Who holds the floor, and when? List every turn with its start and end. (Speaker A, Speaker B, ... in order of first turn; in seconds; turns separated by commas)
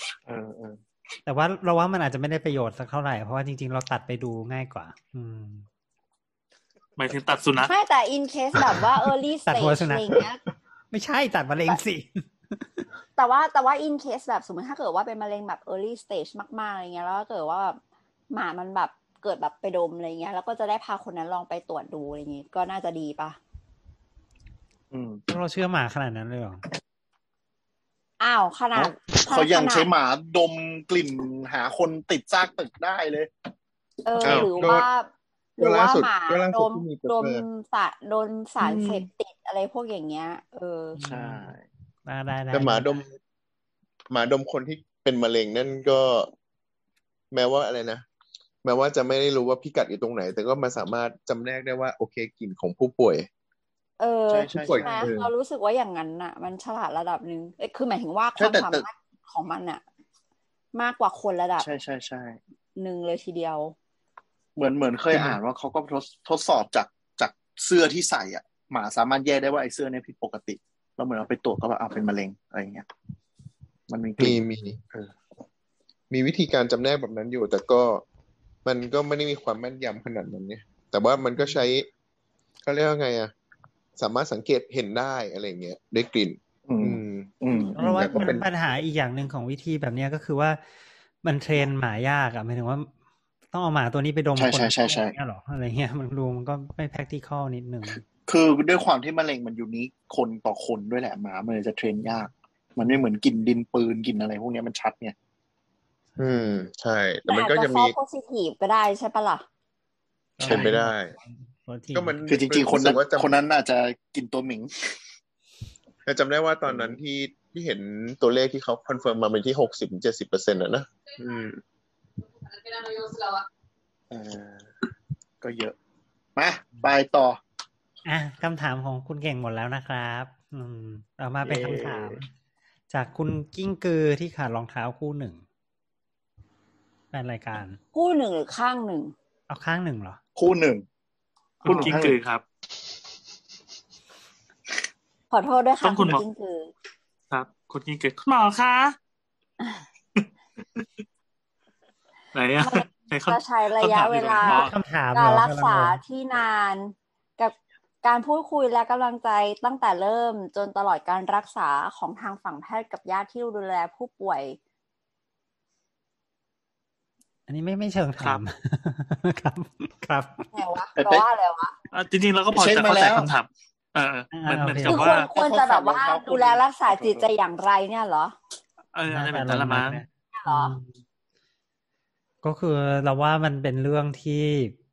Speaker A: 0.2-0.8, Speaker B: 1.2-5.6, Speaker C: 7.0-7.7, Speaker D: 7.6-10.4, Speaker B: 9.4-10.2, Speaker B: 10.9-12.8, Speaker D: 13.2-17.8, Speaker D: 18.3-23.4, Speaker A: 24.9-25.2, Speaker B: 25.3-26.6, Speaker D: 28.2-29.9, Speaker A: 28.7-33.3, Speaker D: 34.0-41.0, Speaker B: 34.2-34.8, Speaker E: 34.2-34.9, Speaker E: 35.6-37.4, Speaker A: 38.6-39.0, Speaker B: 41.0-41.5, Speaker A: 41.0-41.6, Speaker B: 42.0-43.0, Speaker E: 42.5-43.1, Speaker E: 44.1-46.3, Speaker E: 47.3-48.0, Speaker E: 48.6-53.3, Speaker D: 54.0-59.8, Speaker A: 54.3-55.1, Speaker E: 54.5-55.3, Speaker A: 58.4-58.8, Speaker D: 60.7-61.6, Speaker A: 61.6-62.4, Speaker D: 62.8-63.7, Speaker A: 64.5-72.9, Speaker A: 73.9-74.4, Speaker E: 74.2-74.8, Speaker E: 76.1-78.0, Speaker E: 78.6-81.9, Speaker E: 82.6-83.3, Speaker E: 84.0-88.5, Speaker A: 86.7-88.3, Speaker B: 87.8-90.6, Speaker B: 91.2-92.9, Speaker B: 93.5-98.0, Speaker A: 94.4-95.1, Speaker A: 97.9-105.1, Speaker B: 106.2-106.5, Speaker E: 106.2-108.0, Speaker D: 107.3-109.4, Speaker B: 110.4-112.2, Speaker E: 110.4-111.1, Speaker A: 110.4-110.7, Speaker E: 111.9-113.3, Speaker A: 112.3-114.7, Speaker E: 116.0-121.6, Speaker A: 116.7-117.0, Speaker E: 123.0-123.3, Speaker A: 124.1-124.7, Speaker A: 125.4-125.7, Speaker A: 126.3-127.4, Speaker B: 128.0-132.3, Speaker A: 131.4-132.2, Speaker B: 132.9-135.4, Speaker B: 137.1-137.8, Speaker D: 137.9-139.1, Speaker B: 139.5-140.2, Speaker A: 140.3-140.8, Speaker C: 141.6-142.4, Speaker A: 141.7-142.2, Speaker D: 145.3-146.7, Speaker C: 145.8-146.2, Speaker C: 147.3-148.9, Speaker C: 150.2-150.9, Speaker C: 152.3-154.7, Speaker D: 152.6-164.6, Speaker B: 154.4-156.0, Speaker B: 167.5-170.5, Speaker D: 170.5-171.7, Speaker A: 171.0-171.2, Speaker C: 171.9-175.3, Speaker A: 172.5-173.3, Speaker B: 174.3-175.2, Speaker D: 174.9-178.3, Speaker A: 175.1-177.2, Speaker C: 178.9-180.0, Speaker B: 179.1-180.9, Speaker D: 180.3-180.7, Speaker B: 182.4-184.8